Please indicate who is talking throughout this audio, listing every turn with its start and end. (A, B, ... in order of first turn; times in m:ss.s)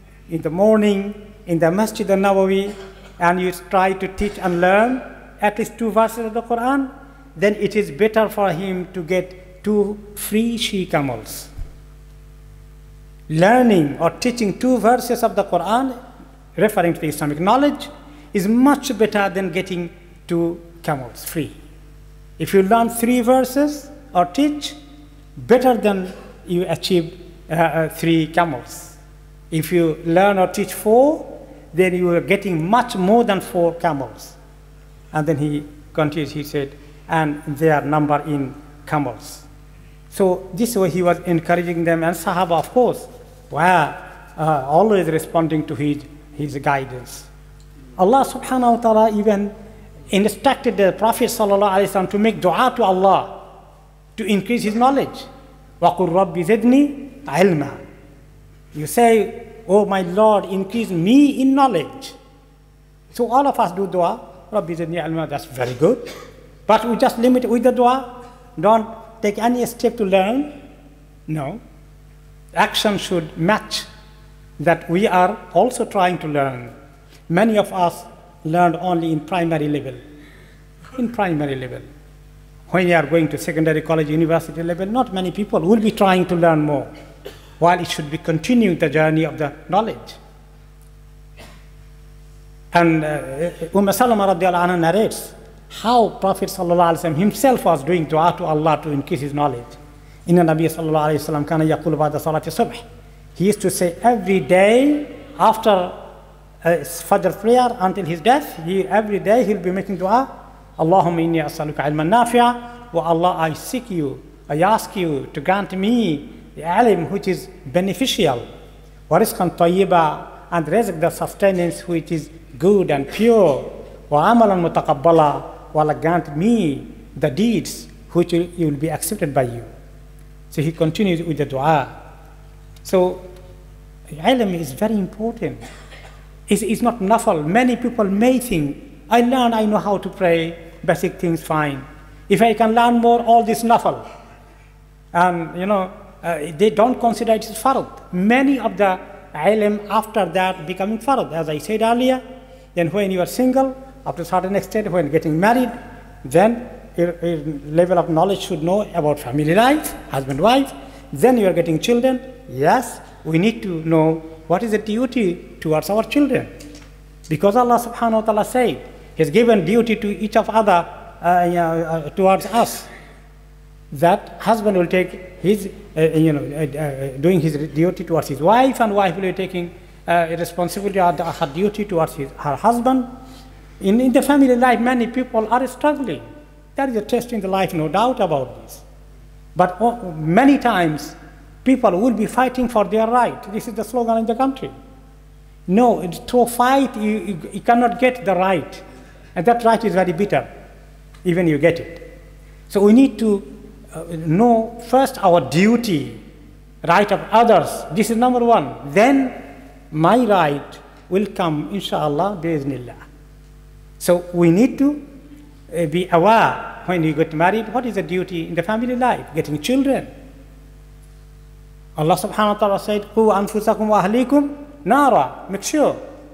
0:00.3-0:11.5 A
0:13.3-0:16.0 A
0:16.6-0:21.6 A
0:22.4-0:24.8 A
0:25.4-0:29.0 A
0:29.5-0:34.4 A
0:35.1-0:39.5 A
0:40.1-0:47.3 A
0:48.0-0:49.5 A
0:50.1-0:53.4 A
0:54.2-0:55.3 A
0:55.8-0:57.8 A
0:58.7-1:02.2 A
1:03.1-1:06.0 A
1:06.7-1:10.5 A
1:11.3-1:11.6 A
1:12.6-1:13.9 A
1:14.6-1:16.7 A
1:17.3-1:20.0 A
1:21.0-1:21.9 A
1:22.7-1:26.9 A
1:27.6-1:30.2 A
1:32.7-1:42.8 A
1:43.4-1:46.0 A
1:46.6-1:58.4 A
1:59.1-2:09.7 A
2:10.5-2:11.9 A
2:12.8-2:13.2 A
2:14.1-2:15.6 A
2:16.5-2:24.0 A
2:25.1-2:32.2 A
2:32.8-2:35.7 A
2:36.2-2:46.5 A
2:47.3-2:52.9 A
2:53.9-3:03.1 A
3:03.8-3:06.2 A
3:06.8-3:08.8 A
3:09.6-3:14.7 A
3:15.7-3:18.8 A
3:19.4-3:20.5 A
3:21.2-3:22.0 A
3:22.7-3:26.2 A
3:26.8-3:29.4 A
3:29.9-3:33.0 A
3:34.0-3:35.0 A
3:35.7-3:40.1 A
3:42.0-3:46.0 A